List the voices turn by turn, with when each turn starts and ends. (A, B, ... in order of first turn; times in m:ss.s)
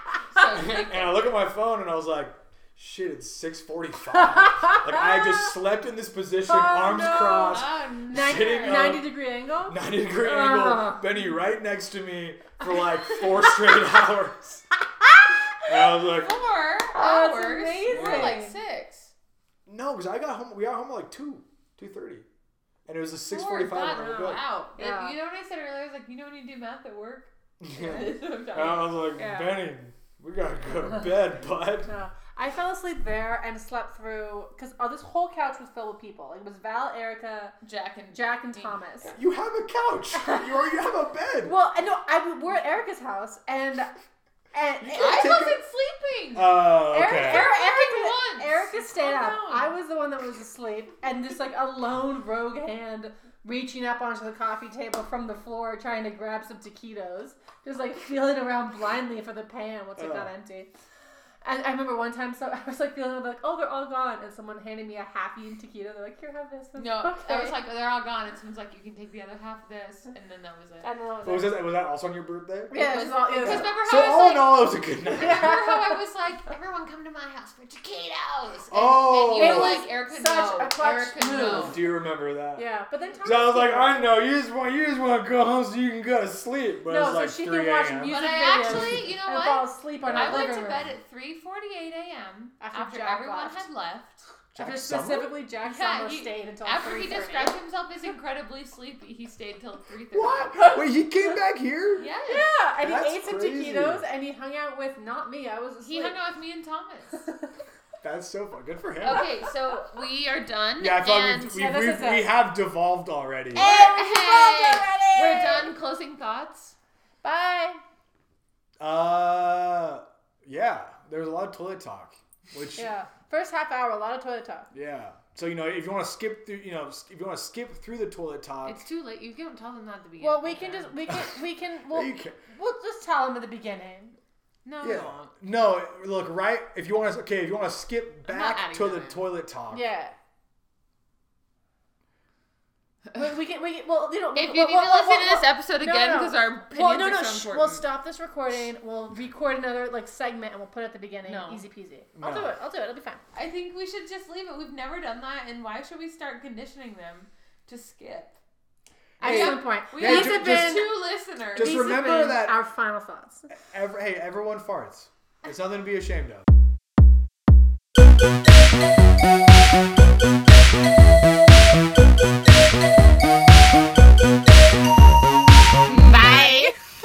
0:00.3-0:01.3 A
0:00.4-0:09.1 B
0:04.1-0:05.5 C
0:06.4-0:11.2 C
0:07.5-0:09.0 A
0:09.7-0:14.6 B
0:15.0-0:15.6 C
0:15.6-0:16.4 B
0:16.1-0:19.1 A
0:16.9-0:18.6 C
0:18.0-0:18.3 B
0:19.7-0:22.3 B
0:22.9-0:24.4 B
0:23.3-0:29.0 A
0:24.8-0:25.2 C
0:27.6-0:31.9 B
0:27.8-0:28.1 C
0:29.2-0:29.6 C
0:31.9-0:37.6 C
0:37.6-0:39.1 A
0:38.1-0:39.2 C
0:39.1-0:41.6 B
0:40.2-0:40.6 C
0:41.4-0:43.9 C
0:44.5-0:45.4 C
0:44.8-0:45.6 B
0:45.0-0:49.7 A
0:46.3-0:47.5 B
0:46.9-1:00.7 C
1:00.0-1:00.3 B
1:01.4-1:07.6 C
1:06.8-1:10.9 A
1:10.8-1:11.6 C
1:11.2-1:15.6 B
1:12.7-1:13.8 C
1:12.7-1:21.8 A
1:15.2-1:15.8 C
1:18.7-1:19.8 B
1:19.4-1:21.8 C
1:21.4-1:22.7 B
1:22.6-1:24.1 C
1:23.2-1:28.9 B
1:26.9-1:30.8 C
1:28.1-1:34.2 A
1:30.0-1:30.5 B
1:32.6-1:33.7 C
1:34.5-1:35.3 B
1:34.6-1:37.6 C
1:35.6-1:40.8 A
1:40.1-1:42.1 B
1:42.0-1:42.5 A
1:42.3-1:46.2 C
1:42.8-1:44.0 B
1:45.8-1:47.3 A
1:47.1-1:47.5 C
1:48.0-1:49.3 B
1:49.0-1:51.5 A
1:50.8-1:53.7 B
1:51.4-1:52.3 C
1:53.5-1:55.7 C
1:53.6-1:56.8 A
1:57.2-1:57.8 C
1:58.8-2:02.9 B
2:02.8-2:04.7 C
2:04.7-2:08.8 B
2:08.7-2:11.1 A
2:10.2-2:14.2 C
2:11.9-2:12.4 B
2:14.6-2:15.3 A
2:14.8-2:19.9 B
2:18.2-2:19.3 A
2:19.7-2:20.2 C
2:23.2-2:33.2 C
2:24.3-2:27.8 A
2:31.3-2:31.6 A
2:32.2-2:32.5 B
2:33.3-2:38.4 A
2:39.2-2:40.9 C
2:39.2-2:40.9 B
2:39.2-2:41.9 A
2:41.5-2:42.6 B
2:41.6-2:43.5 C
2:43.5-2:46.5 B
2:55.9-2:56.8 A
2:56.3-2:56.7 C